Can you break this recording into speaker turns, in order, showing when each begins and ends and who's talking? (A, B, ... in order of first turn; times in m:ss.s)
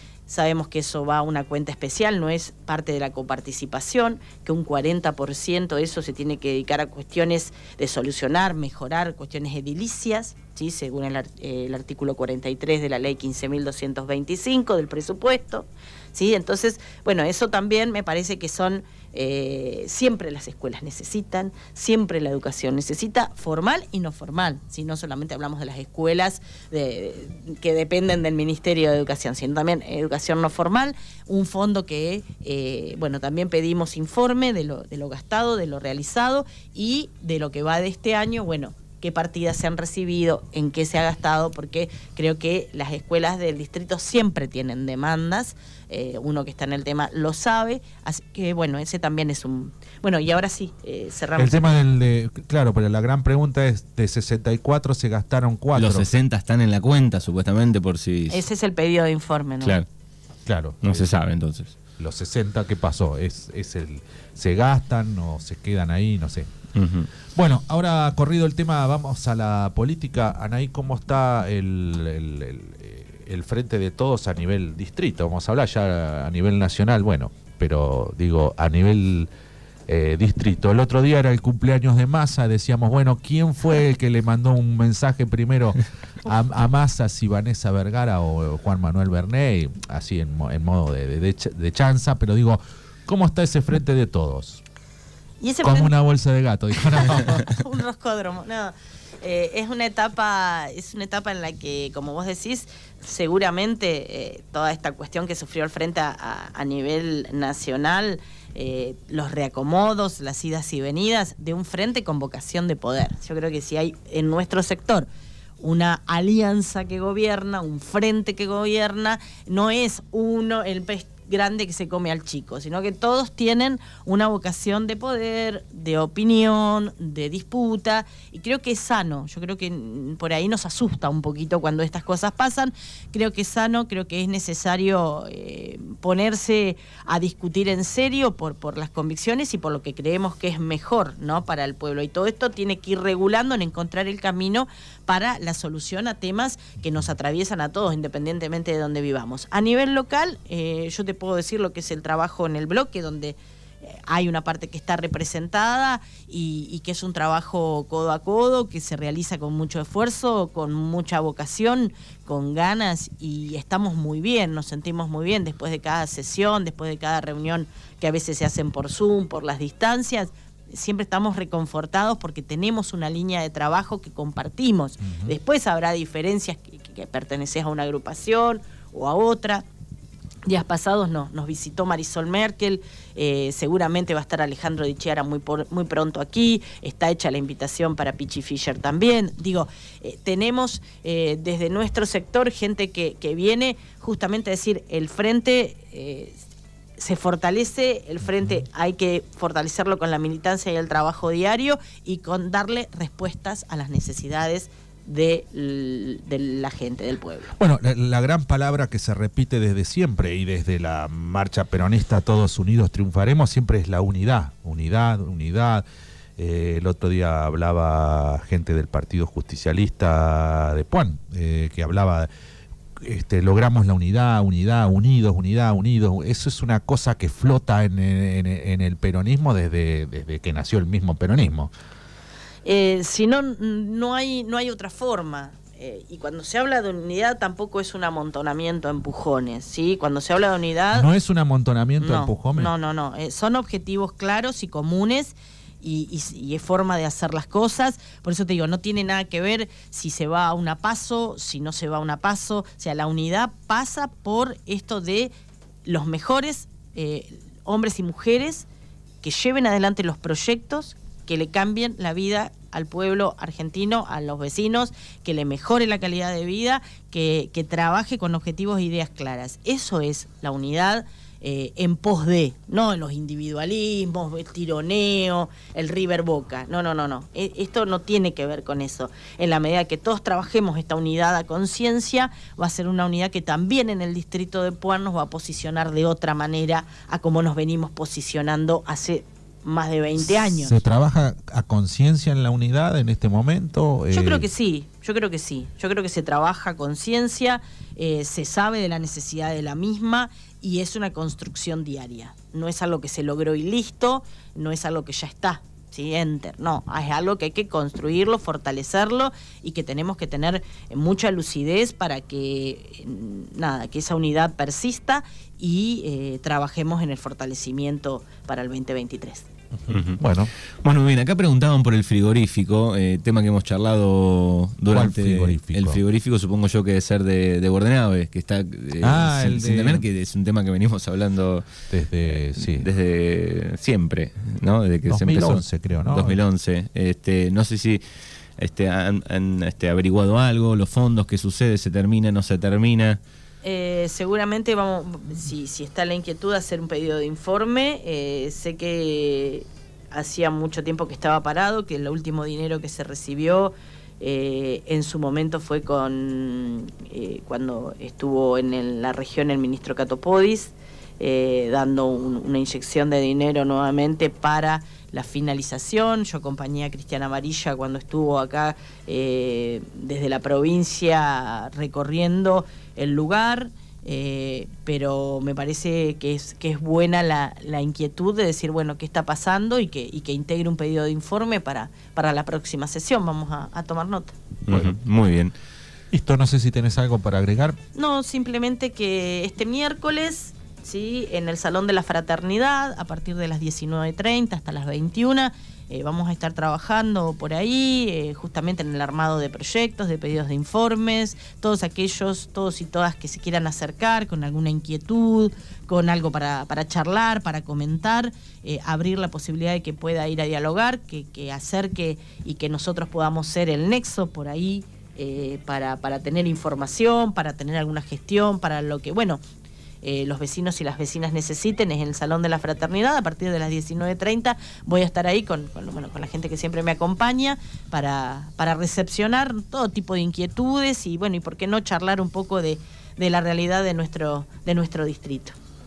0:00.3-0:51.8 A
0:51.4-0:56.1 B
0:55.8-0:58.4 C
0:58.3-0:59.8 A
1:00.5-1:01.2 B
1:00.8-1:01.7 C
1:02.0-1:06.5 B
1:06.8-1:07.1 C
1:07.3-1:19.3 B
1:19.9-1:34.6 B
1:35.4-1:35.9 A
1:35.6-1:37.5 B
1:36.9-1:55.1 A
1:55.6-2:59.6 A
2:55.0-2:55.4 B
3:00.5-3:16.4 A
3:17.0-3:27.6 A
3:27.6-3:35.8 B
3:36.4-3:42.3 B
3:43.0-3:51.7 B
3:52.6-4:01.1 A
4:00.9-4:02.7 B
4:02.0-4:15.3 A
4:15.8-4:18.7 A
4:19.2-4:50.8 A
4:50.3-4:54.5 B
4:54.1-5:19.5 A
5:19.9-5:20.5 B
5:19.9-5:20.2 C
5:20.8-5:31.7 C
5:24.9-5:26.0 B
5:29.0-5:30.0 B
5:31.9-5:32.9 B
5:32.6-5:38.0 C
5:35.1-5:36.4 B
5:38.6-5:43.2 C
5:43.6-6:24.4 A
6:24.7-6:25.5 C
6:24.7-6:25.0 B
6:26.1-6:27.8 B
6:28.0-6:59.4 A
7:00.0-7:15.6 A